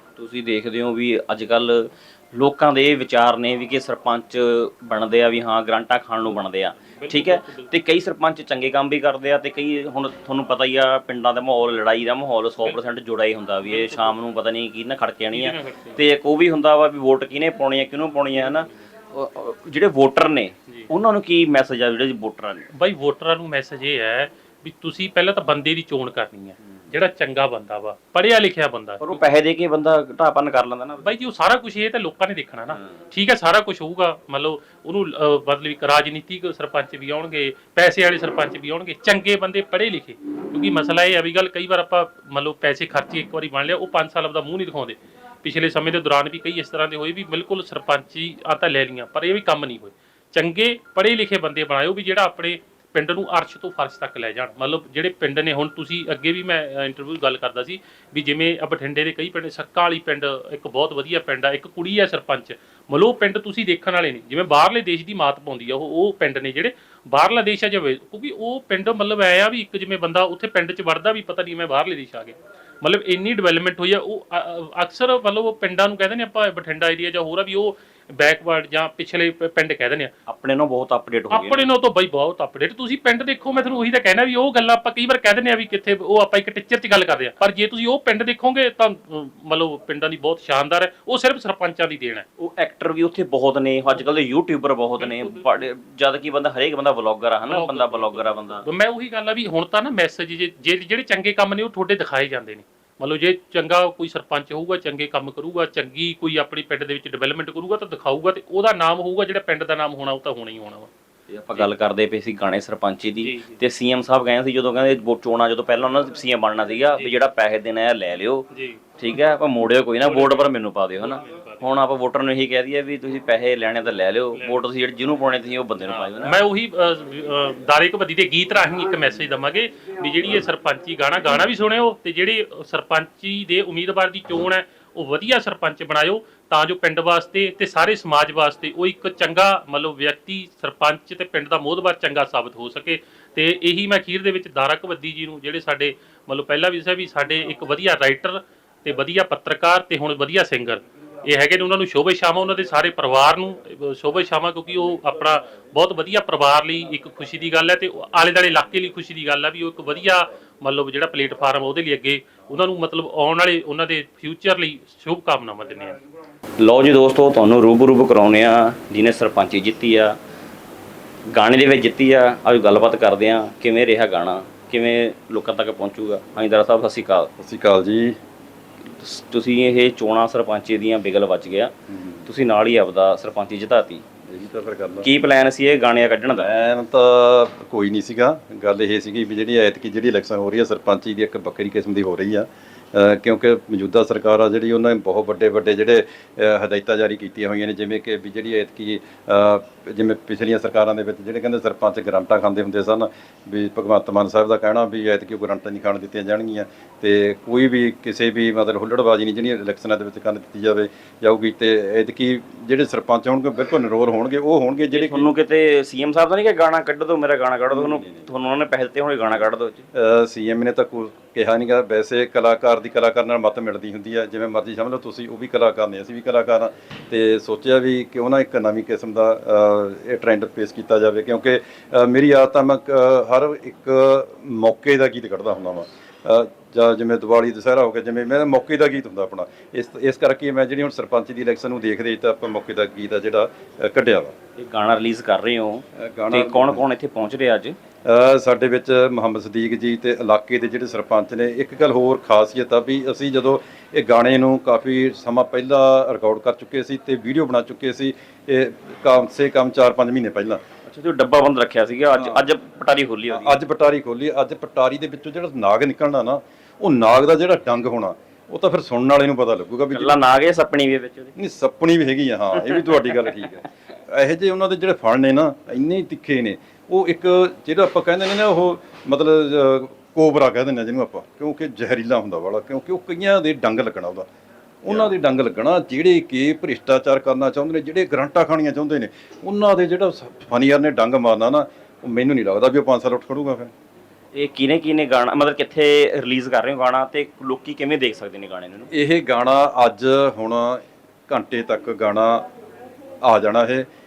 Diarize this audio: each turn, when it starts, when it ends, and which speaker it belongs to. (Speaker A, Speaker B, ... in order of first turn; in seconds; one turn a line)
Speaker A: 0.2-22.6
Speaker B: 7.0-7.7
Speaker B: 13.7-14.1
Speaker B: 15.3-16.0
Speaker B: 22.7-29.2
Speaker A: 29.0-31.1
Speaker B: 31.0-80.1
Speaker A: 80.3-81.7
Speaker B: 81.3-92.2
Speaker A: 92.4-98.6
Speaker B: 95.0-95.4
Speaker B: 97.5-110.9
Speaker A: 111.3-118.4
Speaker B: 113.2-113.6
Speaker B: 118.5-118.8
Speaker A: 119.0-126.4
Speaker B: 120.1-120.5
Speaker B: 121.2-121.7
Speaker B: 125.8-166.0
Speaker A: 166.6-170.2
Speaker A: 171.3-177.3
Speaker C: 177.4-178.2
Speaker A: 179.0-181.7
Speaker C: 181.9-182.2
Speaker A: 182.3-184.0
Speaker C: 184.3-185.1
Speaker A: 185.0-186.5
Speaker C: 186.3-215.3
Speaker A: 214.9-219.8
Speaker C: 219.9-244.3
Speaker A: 244.6-247.8
Speaker C: 246.0-246.9
Speaker C: 248.1-260.6
Speaker A: 260.9-263.6
Speaker C: 262.1-262.5
Speaker C: 263.3-270.2
Speaker A: 269.9-271.3
Speaker C: 271.4-284.3
Speaker A: 272.6-273.6
Speaker C: 284.8-293.7
Speaker A: 284.9-285.1
Speaker A: 294.4-298.9
Speaker C: 298.9-302.4
Speaker C: 303.2-303.9